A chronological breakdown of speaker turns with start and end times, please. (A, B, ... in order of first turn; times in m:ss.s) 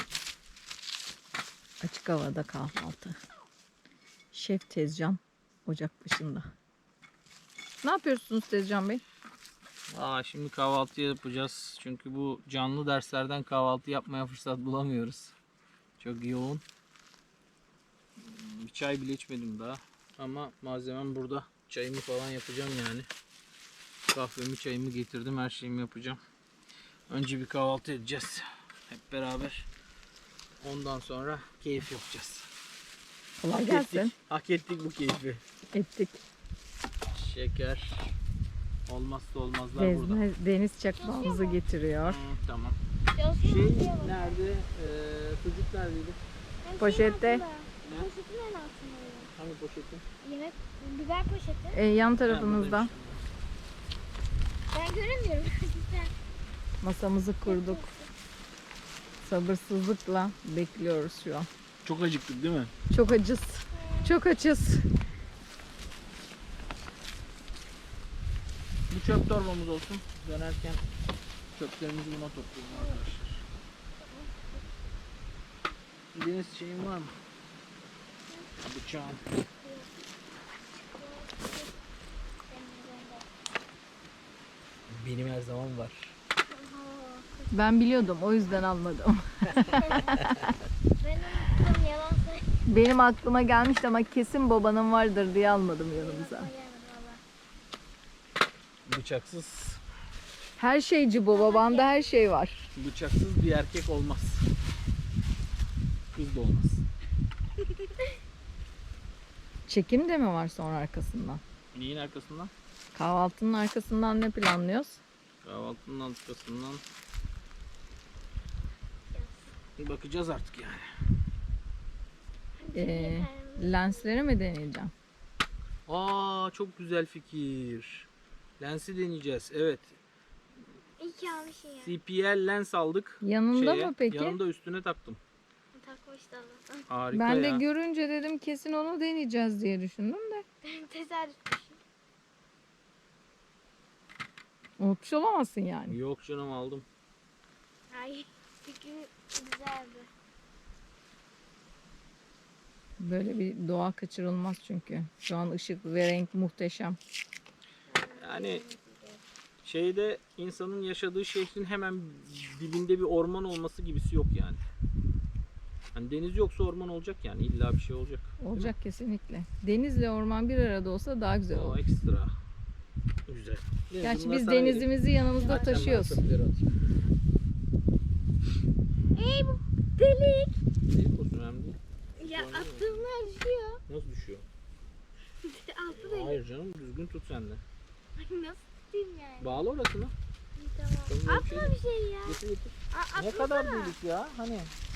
0:01.8-0:03.2 A
0:04.3-0:06.5 A
0:07.8-0:09.0 A
0:09.9-0:15.3 B
0:16.0-0:16.6 B
0:18.2-0:23.1 B
0:24.1-0:26.2 B
0:27.1-0:29.7 B
0:30.6-0:32.5 B
0:33.4-0:34.1 A
0:33.5-0:35.4 B
0:35.7-0:36.2 A
0:37.1-0:38.1 B
0:38.9-0:40.2 B
0:39.8-0:42.2 A
0:41.0-0:41.6 C
0:42.0-0:42.8 B
0:43.1-0:44.4 C
0:43.4-0:46.2 B
0:46.6-0:49.3 C
0:46.8-0:47.4 A
0:49.4-0:50.0 B
0:50.2-0:51.8 C
0:51.7-0:52.9 A
0:52.3-0:53.2 B
0:54.7-0:56.1 C
0:56.8-0:57.8 A
0:57.4-0:58.1 C
0:59.2-1:01.5 A
1:01.8-1:02.7 B
1:02.9-1:04.8 A
1:03.8-1:04.1 C
1:08.9-1:10.8 B
1:11.5-1:13.4 B
1:12.7-1:13.0 C
1:14.0-1:14.6 C
1:16.1-1:17.1 B
1:18.6-1:19.2 B
1:19.5-1:19.9 C
1:20.7-1:21.7 C
1:22.5-1:23.3 C
1:24.9-1:26.2 B
1:26.5-1:27.8 C
1:27.5-1:30.5 A
1:29.8-1:30.1 C
1:31.0-1:32.6 C
1:32.6-1:36.5 A
1:35.9-1:37.2 C
1:38.8-1:39.8 B
1:40.6-1:42.7 A
1:41.3-1:42.2 C
1:42.8-1:44.4 B
1:46.1-1:46.8 B
1:49.7-1:51.4 A
1:51.7-1:52.5 B
1:52.9-1:55.0 A
1:55.4-1:56.8 B
1:59.1-1:59.5 C
1:59.8-2:00.8 B
2:02.6-2:04.2 C
2:02.7-2:04.9 A
2:05.8-2:08.1 B
2:08.6-2:10.0 B
2:11.0-2:12.0 C
2:11.8-2:15.2 B
2:13.2-2:14.4 A
2:15.7-2:16.9 C
2:16.9-2:17.6 B
2:17.1-2:20.4 A
2:20.6-2:21.8 C
2:24.8-2:26.0 A
2:25.9-2:26.8 B
2:27.9-2:30.1 C
2:33.0-2:37.0 A
2:37.9-2:39.2 C
2:38.2-2:38.6 B
2:39.6-2:44.6 B
2:45.9-2:48.7 B
2:48.4-2:51.8 A
2:51.5-2:52.3 B
2:53.3-2:54.9 B
2:54.0-2:56.2 A
2:55.4-2:56.0 C
2:55.4-2:56.7 B
2:56.9-2:57.1 C
2:59.1-3:00.6 C
3:00.9-3:03.1 B
3:02.2-3:03.8 C
3:03.9-3:04.4 B
3:05.4-3:06.4 C
3:05.9-3:07.6 B
3:08.2-3:09.6 C
3:09.4-3:10.1 B
3:10.6-3:12.4 C
3:11.1-3:11.7 B
3:12.2-3:14.7 B
3:12.9-3:14.0 C